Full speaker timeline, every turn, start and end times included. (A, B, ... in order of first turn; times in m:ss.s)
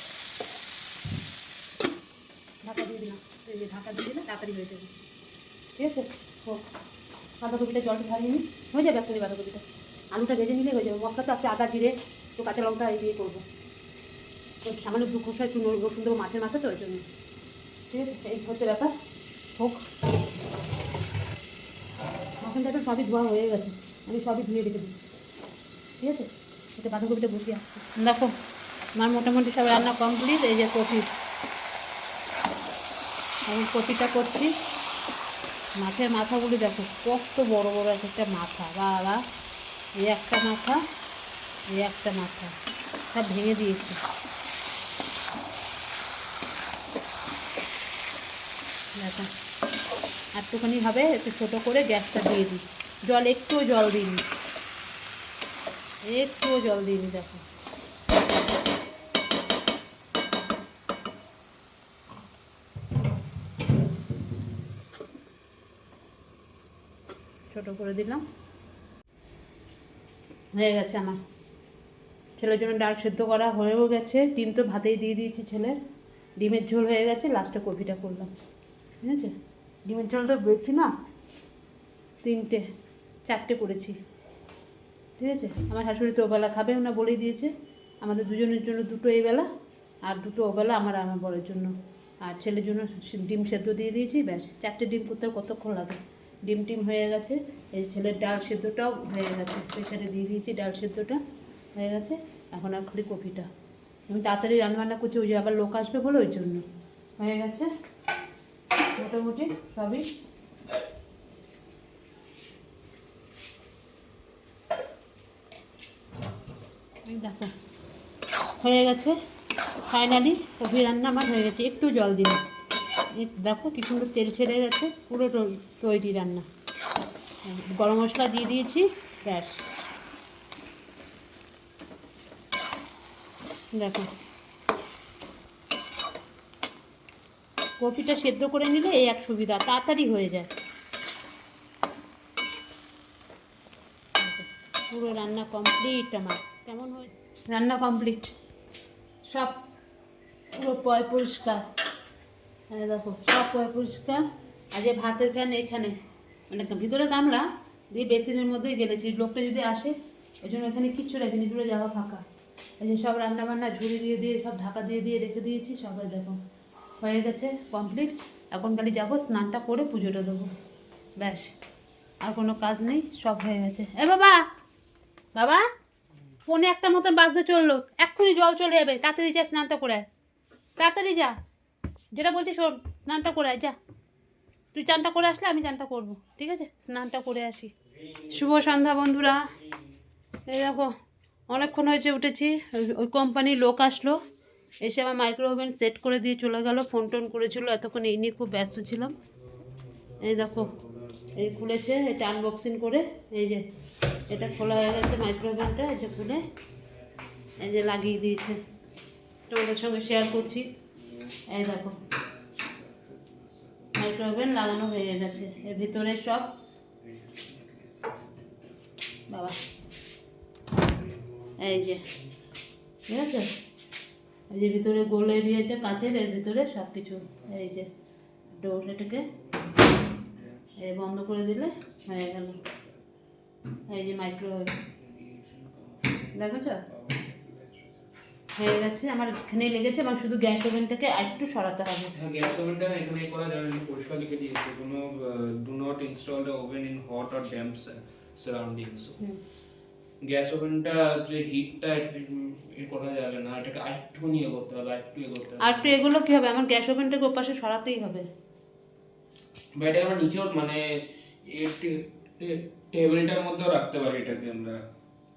0:02.6-0:04.9 A
0:05.8-0:06.7 A
0:07.4-0:13.4 A
0:14.6-0:17.0 A
0:17.9-0:18.9 A
0:22.4-0:24.9 A
0:26.0-0:28.3 A
0:29.0-0:31.1 A
0:33.5-0:34.5 A
0:35.8-0:39.2 A
0:40.0-0:40.8 A
0:41.7-0:42.5 A
0:43.1-0:44.0 A
0:49.0-0:49.3 A
0:50.4-0:54.2 A
0:56.1-0:57.4 A
1:07.5-1:08.2 A
1:10.6-1:11.2 A
1:12.4-1:15.8 A
1:16.4-1:18.3 A
1:19.0-1:19.3 A
1:19.9-1:20.9 A
1:22.2-1:22.6 A
1:23.3-1:24.0 A
1:25.2-1:27.5 A
1:28.0-1:29.5 A
1:30.0-1:31.7 A
1:32.2-1:41.2 A
1:41.8-1:43.5 A
1:44.1-1:46.6 A
1:47.2-1:47.7 A
1:49.0-1:50.1 A
1:57.1-1:57.5 A
1:58.6-1:59.2 A
1:59.9-2:02.4 A
2:03.2-2:06.5 A
2:07.5-2:09.6 A
2:13.8-2:14.1 A
2:17.8-2:20.5 A
2:24.2-2:28.3 A
2:29.3-2:29.6 A
2:30.6-2:31.6 A
2:32.7-2:36.0 A
2:36.5-2:39.9 A
2:40.4-2:42.2 A
2:42.8-2:46.4 A
2:47.0-2:50.5 A
2:51.2-2:51.5 A
2:52.2-2:54.4 A
2:55.4-2:55.6 A
2:56.5-3:00.1 A
3:00.8-3:01.3 A
3:02.2-3:03.8 A
3:04.7-3:07.7 A
3:08.3-3:09.5 A
3:10.5-3:10.9 A
3:11.5-3:14.2 A
3:14.8-3:19.1 A
3:18.5-3:19.1 B
3:19.6-3:22.0 B
3:20.2-3:20.7 A
3:21.3-3:23.6 A
3:24.2-3:29.0 B
3:24.3-3:26.5 A
3:27.6-3:28.6 A
3:29.5-3:30.7 A
3:30.8-3:36.2 B
3:31.5-3:32.0 A
3:34.0-3:36.5 A
3:37.0-3:39.5 B
3:39.3-3:39.6 A
3:40.8-3:42.4 B
3:41.6-3:42.0 A
3:43.1-3:43.5 A
3:44.5-3:47.9 A
3:47.2-3:47.7 B
3:48.6-3:49.3 A
3:48.9-3:53.0 B
3:50.8-3:52.6 A
3:53.9-3:54.7 A
3:54.8-3:58.5 B
3:56.3-3:56.8 A
3:58.6-4:02.1 A
4:02.2-4:09.2 B
4:10.2-4:16.0 B
4:15.6-4:18.2 A
4:19.8-4:20.8 B
4:21.5-4:24.8 B